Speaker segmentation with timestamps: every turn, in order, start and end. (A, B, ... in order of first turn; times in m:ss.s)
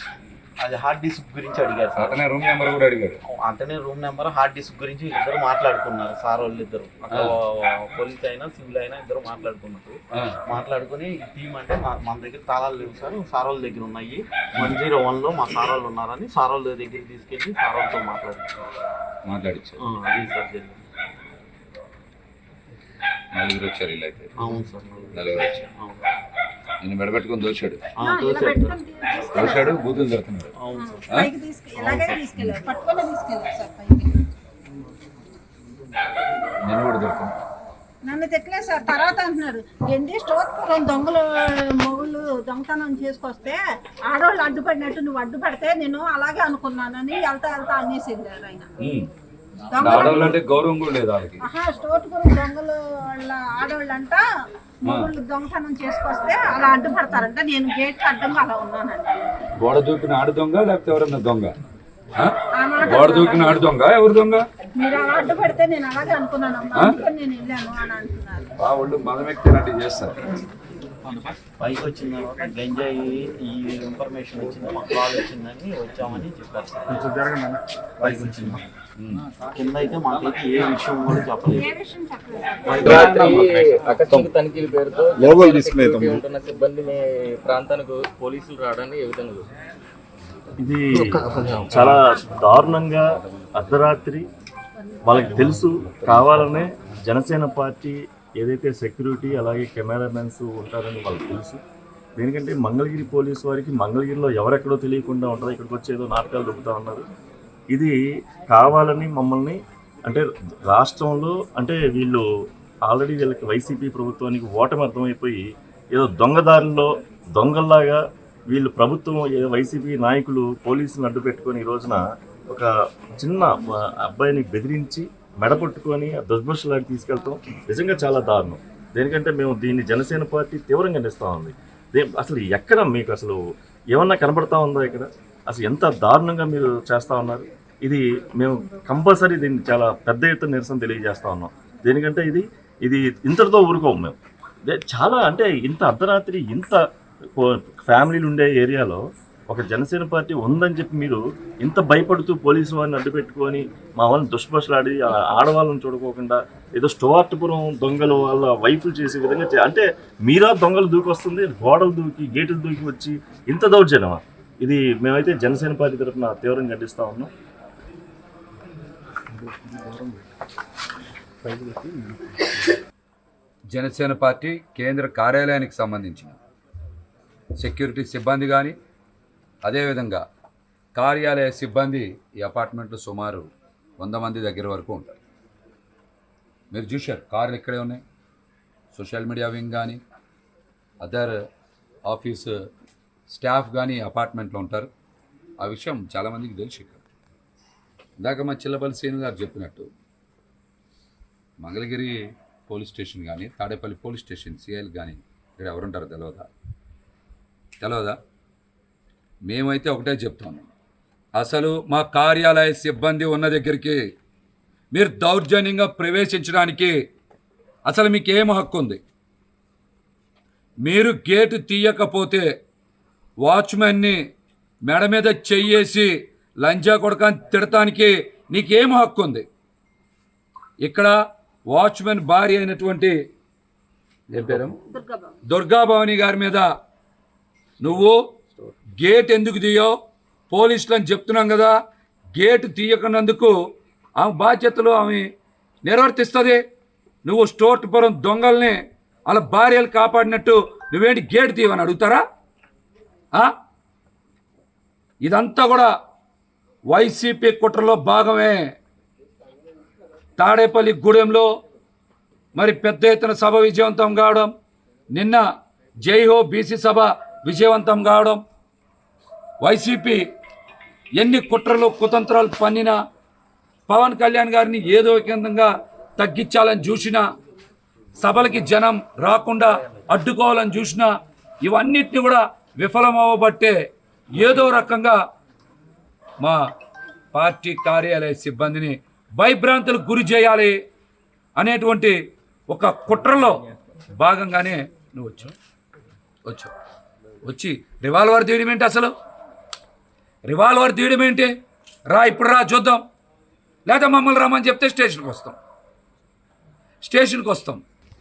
0:00.6-0:02.2 A
0:02.0-0:03.2 B
0:03.3-0:18.6 A
0:19.2-0:19.8 B
0:19.8-0:20.8 A
0:23.3-0:24.3 B
0:24.4-0:26.1 A
0:25.1-0:25.6 B
0:26.8-0:27.8 B
0:28.0-0:28.8 A
0:28.0-0:29.8 C
0:29.3-0:30.5 B
0:30.6-0:31.0 A
0:30.8-0:34.2 C
0:31.8-0:32.2 A
0:36.6-0:37.3 B
0:38.0-0:48.7 C
0:49.7-0:50.4 C
0:49.8-0:51.4 B
0:51.4-0:54.2 C
0:54.8-0:59.3 C
0:59.6-1:01.5 B
1:02.2-1:04.4 B
1:02.6-1:03.6 C
1:04.8-1:08.5 C
1:08.6-1:10.2 B
1:11.0-1:17.1 A
1:18.0-1:18.6 A
1:19.0-1:19.2 B
1:19.5-1:21.7 A
1:21.5-1:23.0 C
1:22.6-1:23.6 A
1:22.8-1:29.5 D
1:30.6-1:34.2 E
1:31.1-1:31.6 D
1:35.0-1:41.6 E
1:35.4-1:36.5 B
1:42.2-1:47.0 E
1:48.5-1:52.2 E
1:52.9-1:58.0 E
1:58.5-2:02.7 E
2:03.2-2:13.4 E
2:13.9-2:26.8 E
2:27.4-2:47.3 E
2:53.7-2:56.4 B
2:57.6-2:58.7 B
2:59.6-3:00.2 B
3:00.9-3:05.2 B
3:06.7-3:08.0 B
3:08.9-3:10.0 B
3:11.0-3:11.3 B
3:12.1-3:12.5 B
3:13.3-3:14.9 B
3:15.6-3:17.0 B
3:18.2-3:19.9 B
3:21.6-3:22.1 B
3:22.7-3:26.4 B
3:27.8-3:28.2 B
3:29.5-3:30.7 B
3:31.4-3:34.0 B
3:34.9-3:36.9 B
3:37.8-3:39.0 B
3:40.8-3:42.4 B
3:43.4-3:44.2 B
3:44.8-3:46.1 B
3:46.6-3:49.4 B
3:50.8-3:51.1 B
3:51.7-3:53.2 B
3:54.3-3:54.8 B
3:54.8-3:55.4 C
3:55.5-3:56.7 B
3:57.8-3:58.2 B
3:59.0-3:59.9 B
4:00.5-4:01.7 B
4:02.3-4:03.5 B
4:04.2-4:05.2 B
4:05.8-4:06.6 B
4:07.2-4:12.2 B
4:15.2-4:15.9 B
4:16.9-4:18.6 B
4:20.4-4:21.5 B
4:22.5-4:24.5 B
4:25.1-4:25.4 B
4:26.0-4:28.4 B
4:29.6-4:30.2 B
4:31.2-4:33.0 B
4:33.9-4:37.2 B
4:38.2-4:41.1 B
4:41.6-4:43.8 B
4:44.3-4:45.2 B
4:47.3-4:50.7 B
4:51.6-4:52.2 B
4:52.7-4:53.6 B
4:54.2-4:55.5 B
4:56.4-4:56.7 B
4:57.4-4:59.1 B
5:00.5-5:01.5 B
5:02.1-5:03.0 B
5:03.8-5:05.6 B
5:07.0-5:07.8 B